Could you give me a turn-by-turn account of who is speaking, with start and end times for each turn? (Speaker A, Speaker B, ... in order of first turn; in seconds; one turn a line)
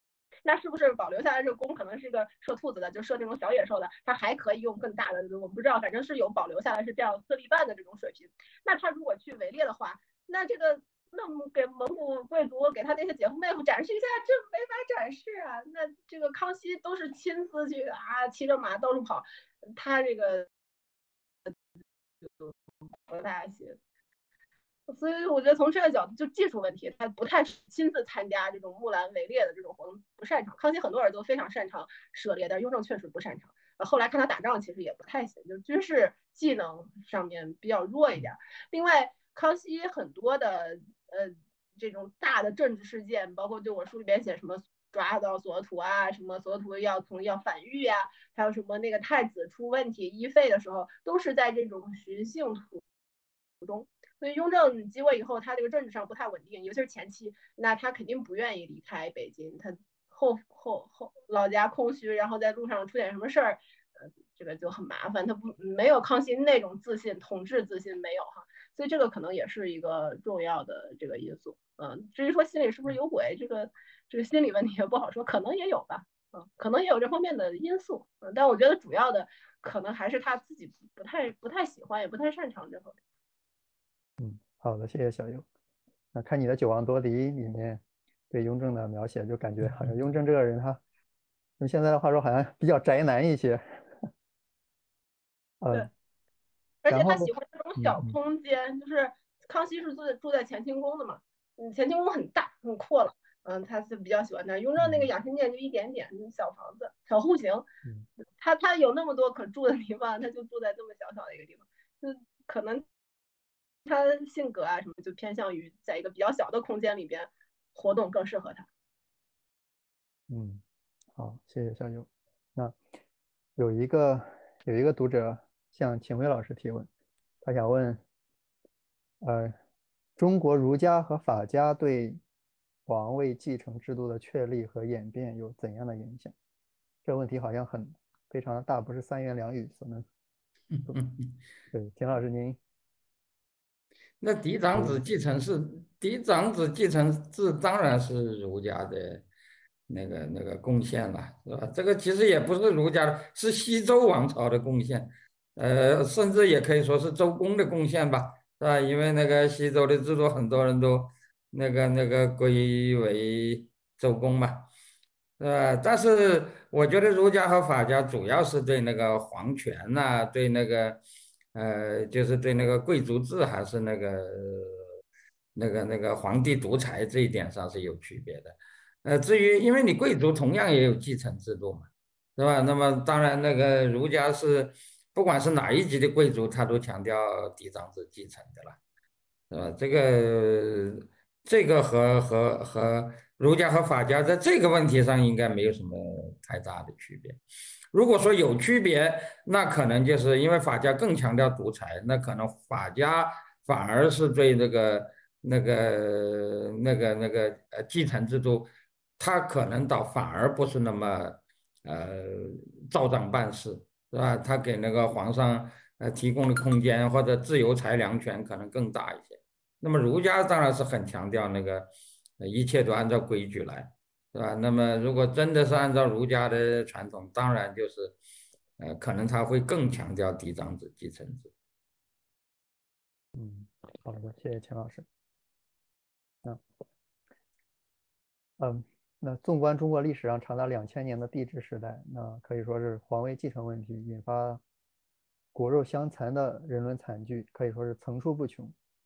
Speaker A: 0.5-20.5
Speaker A: 23.1-23.8
Speaker A: 24.9-52.8
Speaker A: 53.6-83.0
Speaker B: 84.2-85.5
Speaker B: 86.1-90.8
Speaker B: 91.6-93.9
Speaker B: 95.6-95.9
Speaker A: 96.8-107.7
Speaker B: 96.9-98.2
Speaker B: 104.8-105.1
Speaker A: 108.4-112.8
Speaker A: 113.9-118.7
Speaker B: 120.3-120.6
Speaker B: 121.2-122.8
Speaker B: 123.6-126.9
Speaker B: 127.4-128.0
Speaker B: 129.2-129.6
Speaker B: 130.2-132.2
Speaker B: 132.9-136.3
Speaker B: 137.1-140.1
Speaker C: 140.9-141.3
Speaker B: 141.7-142.6
Speaker C: 144.2-149.2
Speaker B: 144.8-145.0
Speaker C: 149.9-164.7
Speaker C: 165.4-171.0
Speaker C: 171.5-174.8
Speaker C: 175.6-188.8
Speaker C: 189.5-197.4
Speaker C: 197.9-221.9
Speaker C: 222.4-228.1
Speaker C: 228.8-231.5
Speaker B: 233.3-235.1
Speaker B: 238.6-244.6
Speaker B: 245.5-248.7